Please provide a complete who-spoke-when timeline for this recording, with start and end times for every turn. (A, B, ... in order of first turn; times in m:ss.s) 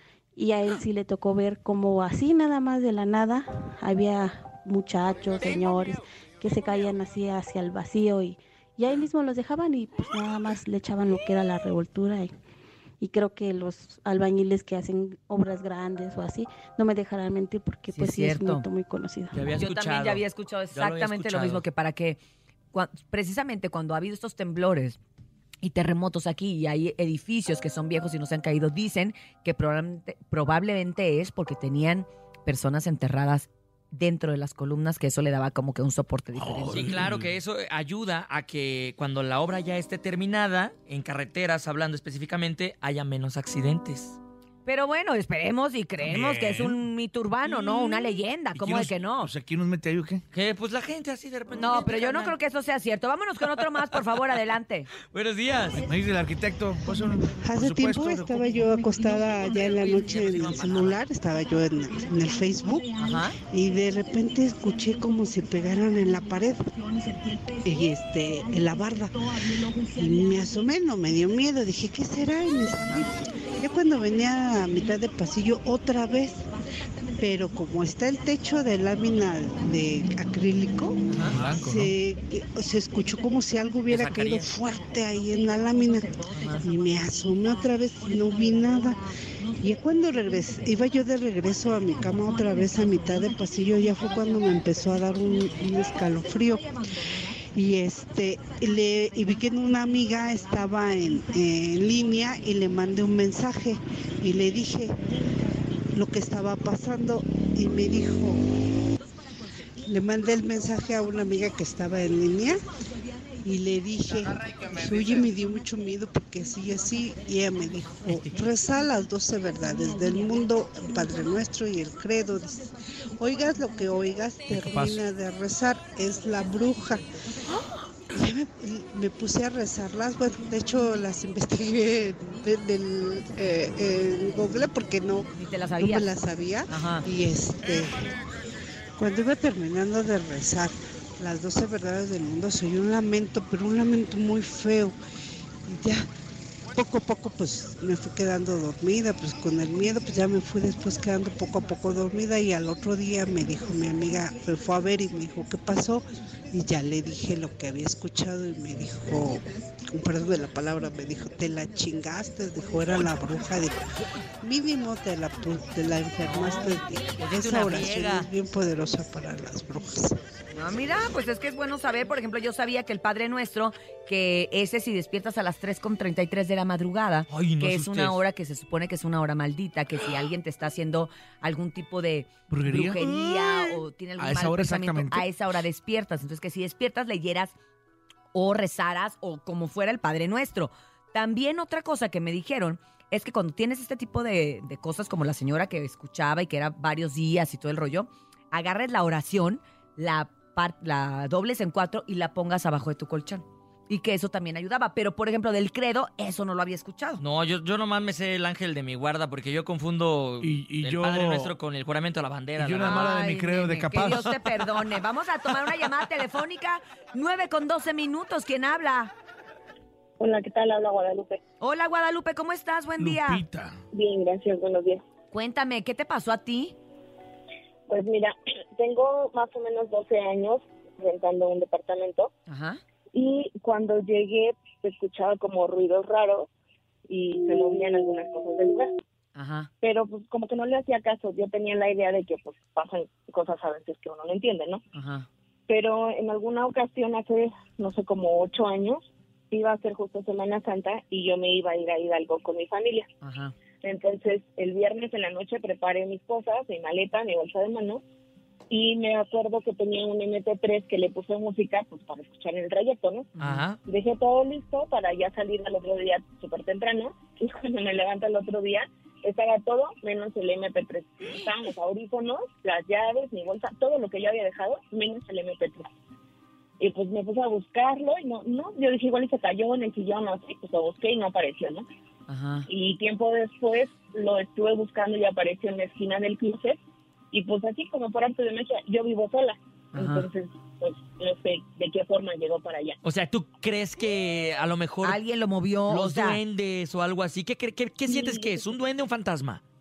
0:00.3-0:12.3 A
0:13.0-0:19.5 A
0:17.9-0:18.7 B
0:19.3-0:21.6 C
0:19.6-0:22.2 B
0:22.7-0:25.0 B
0:25.6-0:36.9 B
0:36.3-0:37.3 D
0:36.7-0:44.2 C
0:44.6-0:49.3 B
0:46.0-0:46.7 C
0:46.5-0:46.8 D
0:47.4-0:48.2 C
0:48.5-0:50.2 D
0:50.3-0:52.4 C
0:51.5-0:54.9 B
0:53.4-0:54.4 C
0:55.1-0:55.8 C
0:55.7-0:58.5 D
0:57.4-1:02.9 E
0:59.3-1:01.0 C
1:03.0-1:03.4 B
1:03.5-1:06.8 E
1:07.6-1:16.5 E
1:17.2-1:29.0 E
1:21.1-1:21.4 B
1:21.3-1:21.9 D
1:23.9-1:24.5 C
1:26.3-1:26.6 B
1:29.6-1:36.7 E
1:37.5-1:45.1 E
1:45.9-1:48.4 E
1:49.8-1:52.6 E
1:53.4-2:07.1 E
2:04.5-2:05.0 D
2:08.1-2:18.1 E
2:15.3-2:16.1 B
2:16.7-2:17.1 B
2:19.0-2:24.9 E
2:25.6-2:26.0 E
2:26.7-2:43.8 E
2:44.4-2:50.2 E
2:46.2-2:48.3 C
2:50.5-3:07.5 B
2:57.3-2:58.2 C
3:02.5-3:05.5 D
3:08.3-3:27.2 B
3:27.2-3:33.1 C
3:30.4-3:31.5 D
3:32.6-3:34.8 D
3:32.8-3:39.1 B
3:40.2-3:41.4 F
3:41.6-3:43.4 B
3:43.0-3:43.8 D
3:43.9-3:45.0 F
3:45.3-3:46.8 B
3:47.9-3:52.3 F
3:52.5-3:52.8 B
3:53.1-3:56.5 F
3:57.1-3:58.9 F
3:59.3-3:59.7 B
3:59.8-4:04.8 F
4:04.9-4:05.3 B
4:05.7-4:13.1 F
4:13.2-4:13.5 B
4:13.8-4:18.0 F
4:18.7-4:23.3 F
4:23.4-4:23.6 B
4:23.4-4:23.8 C
4:23.8-4:35.9 F
4:36.8-4:41.8 F
4:42.3-4:42.7 B
4:42.7-4:46.8 F
4:47.3-4:53.0 F
4:49.9-4:50.3 B
4:53.0-4:55.2 C
4:55.0-4:56.4 B
4:55.9-4:59.6 C
4:58.0-4:58.8 F